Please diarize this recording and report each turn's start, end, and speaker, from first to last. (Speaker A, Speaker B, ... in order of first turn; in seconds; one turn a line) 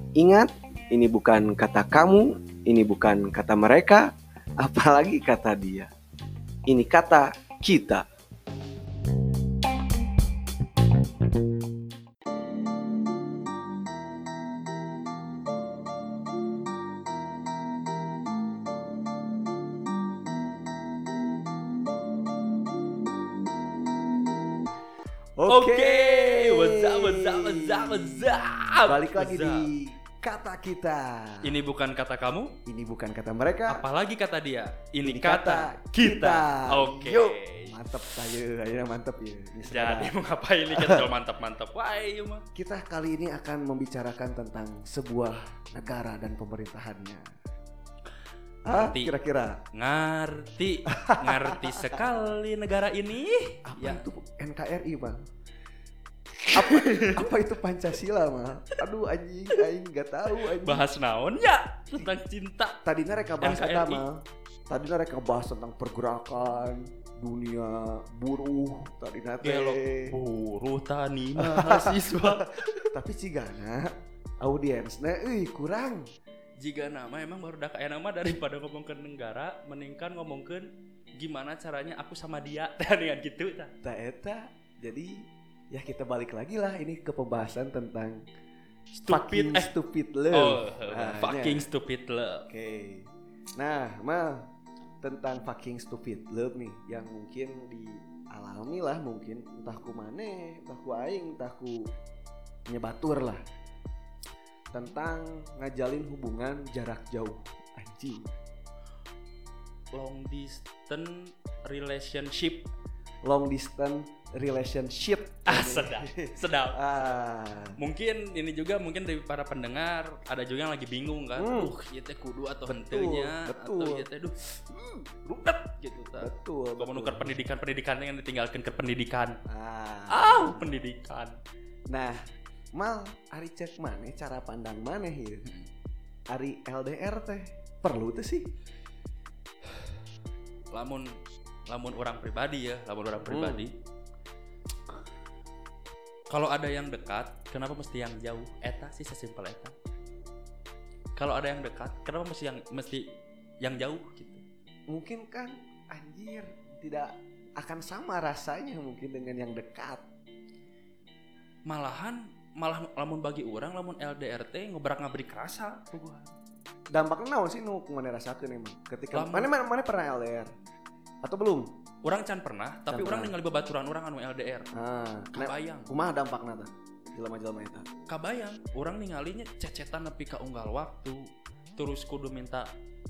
Speaker A: 0.2-5.9
Speaker A: 6.7-8.0
Speaker A: 25.4-31.5
Speaker B: 25.5-29.7
Speaker B: 31.4-32.5
Speaker A: 32.7-33.8
Speaker B: 33.7-37.9
Speaker A: 35.0-40.1
Speaker B: 39.6-42.5
Speaker A: 40.7-41.1
Speaker A: 42.5-47.2
Speaker A: 48.7-49.6
Speaker B: 48.7-49.1
Speaker B: 49.7-54.1
Speaker A: 50.9-52.0
Speaker A: 53.7-55.2
Speaker B: 56.5-57.3
Speaker A: 56.5-60.9
Speaker B: 60.4-62.8
Speaker A: 62.8-70.2
Speaker B: 63.4-64.0
Speaker B: 69.4-72.6
Speaker A: 71.4-73.9
Speaker A: 74.4-76.1
Speaker B: 76.6-83.7
Speaker A: 83.8-88.2
Speaker B: 88.9-89.7
Speaker A: 89.1-91.7
Speaker B: 90.3-92.5
Speaker A: 92.5-94.5
Speaker A: 95.0-101.9
Speaker A: 102.7-103.4
Speaker A: 104.7-108.3
Speaker B: 109.9-112.7
Speaker A: 113.2-117.8
Speaker B: 115.5-117.0
Speaker B: 117.8-129.4
Speaker A: 121.4-121.7
Speaker A: 122.7-124.1
Speaker A: 126.2-127.3
Speaker A: 129.5-130.7
Speaker B: 130.1-131.4
Speaker A: 131.9-132.2
Speaker A: 132.8-135.5
Speaker A: 136.3-138.5
Speaker B: 140.7-141.1
Speaker B: 141.7-143.7
Speaker A: 143.2-143.7
Speaker B: 146.3-149.7
Speaker B: 151.2-153.1
Speaker B: 153.6-154.4
Speaker A: 154.9-160.0
Speaker B: 161.7-166.3
Speaker A: 166.9-170.5
Speaker B: 169.1-169.5
Speaker A: 171.2-171.7
Speaker B: 172.0-174.7
Speaker A: 172.9-173.3
Speaker A: 174.8-177.9
Speaker B: 175.3-175.9
Speaker B: 178.1-181.2
Speaker B: 181.8-182.7